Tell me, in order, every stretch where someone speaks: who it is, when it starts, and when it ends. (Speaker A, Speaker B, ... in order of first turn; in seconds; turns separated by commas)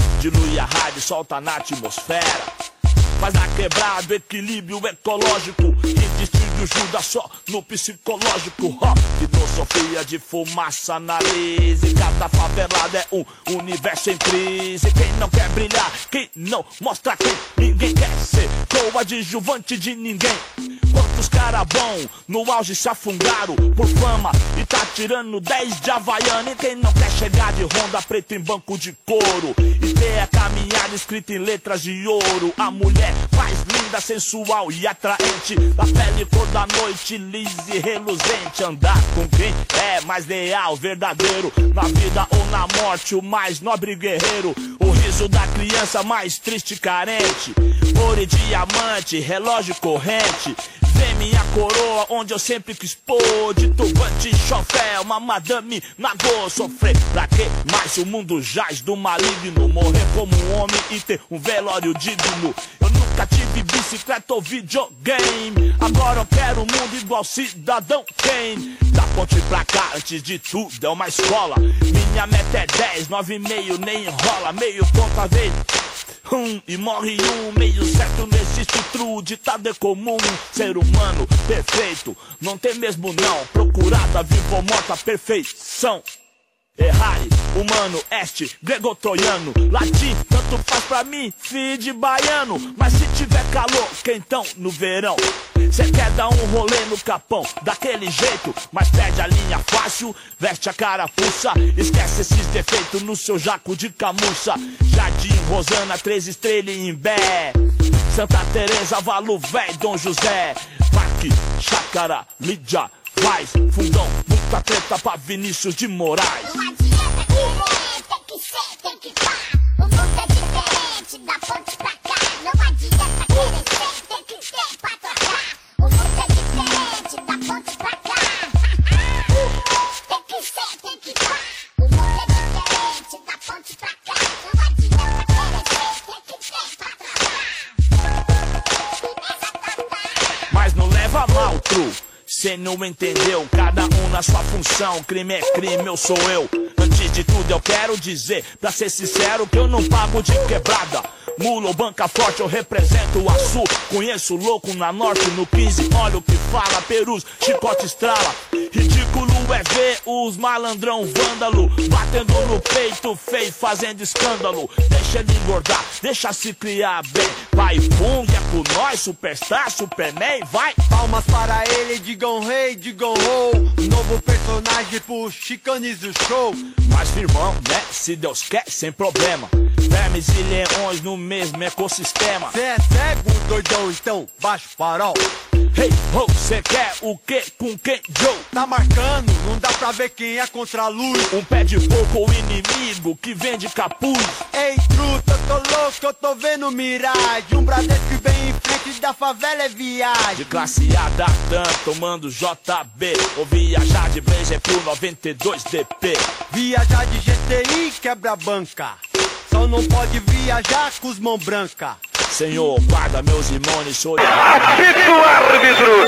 Speaker A: 0.2-2.5, Speaker A: 3.2-75.6, Speaker A: 76.2-86.0, Speaker A: 86.8-116.5, Speaker B: 116.4-128.8, Speaker B: 130.1-137.5, Speaker B: 138.9-140.4, Speaker A: 140.5-170.8, Speaker C: 170.9-176.7, Speaker A: 176.8-182.5, Speaker C: 182.5-185.2, Speaker A: 185.7-188.5, Speaker C: 188.5-191.3, Speaker A: 191.3-194.4, Speaker C: 194.5-200.4, Speaker A: 200.3-206.3, Speaker C: 206.5-212.0, Speaker A: 212.3-214.6